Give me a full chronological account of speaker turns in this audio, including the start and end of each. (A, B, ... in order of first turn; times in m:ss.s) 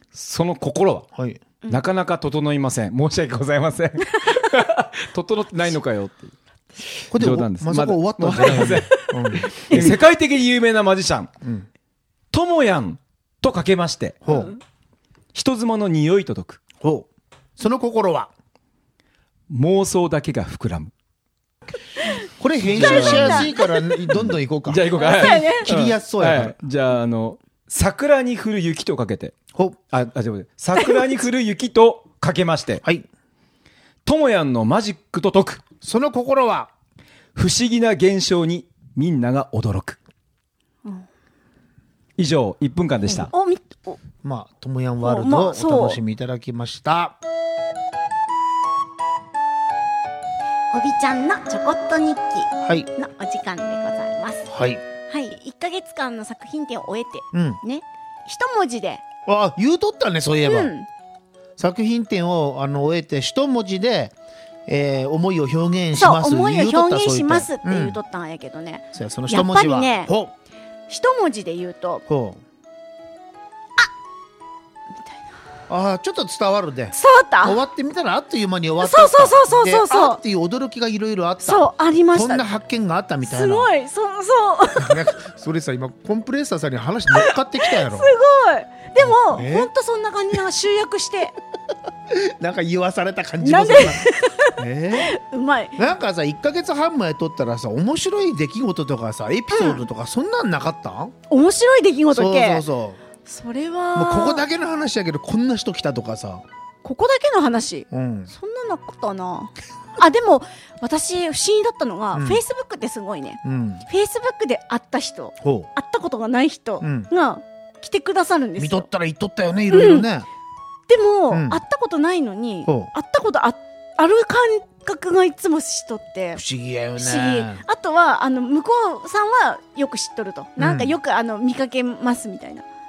0:00.1-0:01.1 A
0:01.2-0:01.4 B
0:01.7-0:11.3 A
0:04.1-0:04.4 C
0:07.1-0:10.0 B
0:09.0-0:10.0 C
0:11.4-0:11.7 B
0:12.3-0:14.2 A
0:14.2-0:14.6 B
0:14.3-0:14.6 C
0:15.3-0:16.6 A
0:16.8-0:18.3 B
0:19.5-0:20.9 A
0:22.4-0:26.6 B
0:22.6-0:23.5 A
0:22.8-0:24.1 C
0:24.1-0:29.4 A
0:25.0-0:25.7 C
0:29.9-0:32.8 A
0:30.8-0:31.0 C
0:34.0-0:35.6 A
0:35.8-0:36.7 B
0:37.4-0:40.0 A
0:42.2-0:43.3 A
0:43.1-0:44.0 C
0:44.2-0:47.2 B
0:45.0-0:46.0 C
0:50.7-0:54.5 C
0:52.6-0:52.9 B
0:54.5-0:54.8 B
0:55.1-0:59.0 C
0:57.3-0:57.6 B
0:59.3-1:00.7 B
1:00.4-1:00.9 C
1:01.6-1:04.2 B
1:04.7-1:08.0 B
1:06.0-1:10.1 C
1:08.9-1:10.3 B
1:10.9-1:12.0 C
1:12.1-1:12.4 B
1:15.7-1:23.7 B
1:16.9-1:17.6 C
1:18.8-1:20.2 C
1:21.4-1:22.5 C
1:23.2-1:25.1 C
1:24.8-1:28.1 B
1:27.1-1:31.4 C
1:29.0-1:29.7 B
1:32.1-1:35.1 B
1:33.4-1:35.8 C
1:35.8-1:41.2 B
1:39.5-1:39.8 C
1:41.3-1:42.6 C
1:42.1-1:43.0 B
1:43.2-1:44.4 C
1:44.0-1:46.4 B
1:46.8-1:58.9 C
1:47.9-1:48.3 B
1:52.1-1:52.4 B
1:53.4-1:53.8 B
1:55.4-1:55.7 B
1:56.8-1:57.1 B
1:58.6-2:00.3 B
1:59.7-2:00.1 C
2:00.9-2:06.4 C
2:01.3-2:01.6 B
2:02.7-2:02.9 B
2:06.4-2:07.6 B
2:07.0-2:12.6 C
2:10.6-2:11.0 B